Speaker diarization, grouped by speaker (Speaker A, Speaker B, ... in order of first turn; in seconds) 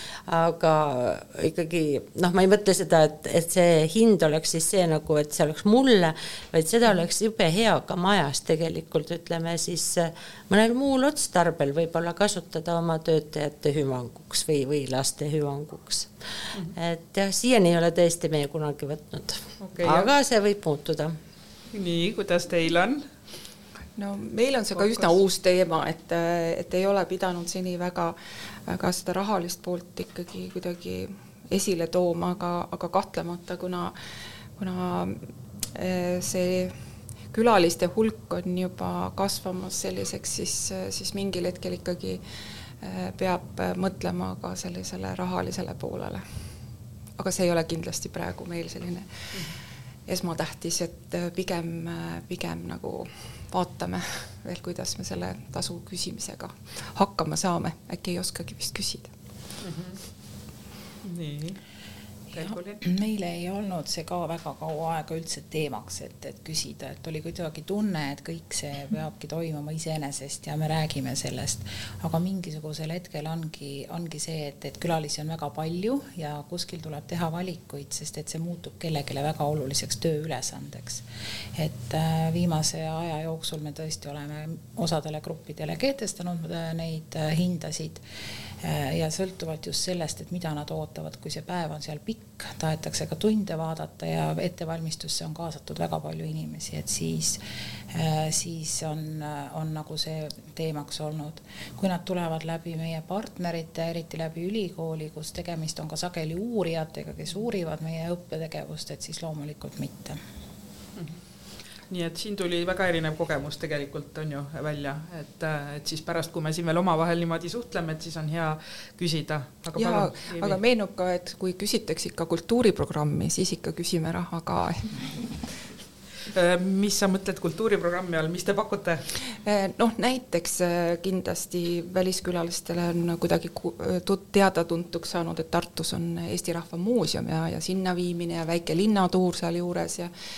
Speaker A: 0.3-16.1, 16.7-21.1
Speaker B: 19.6-20.1, 21.7-23.0, 24.8-25.2, 59.6-60.0, 61.0-61.6, 62.3-62.8, 111.9-120.6, 126.3-129.1
Speaker C: 23.9-28.1, 28.7-33.9, 34.6-36.7, 37.3-42.2, 42.8-46.2, 47.2-49.3, 50.1-59.1, 119.7-125.3, 129.4-140.1
Speaker D: 62.4-81.0, 81.5-88.0, 88.6-110.2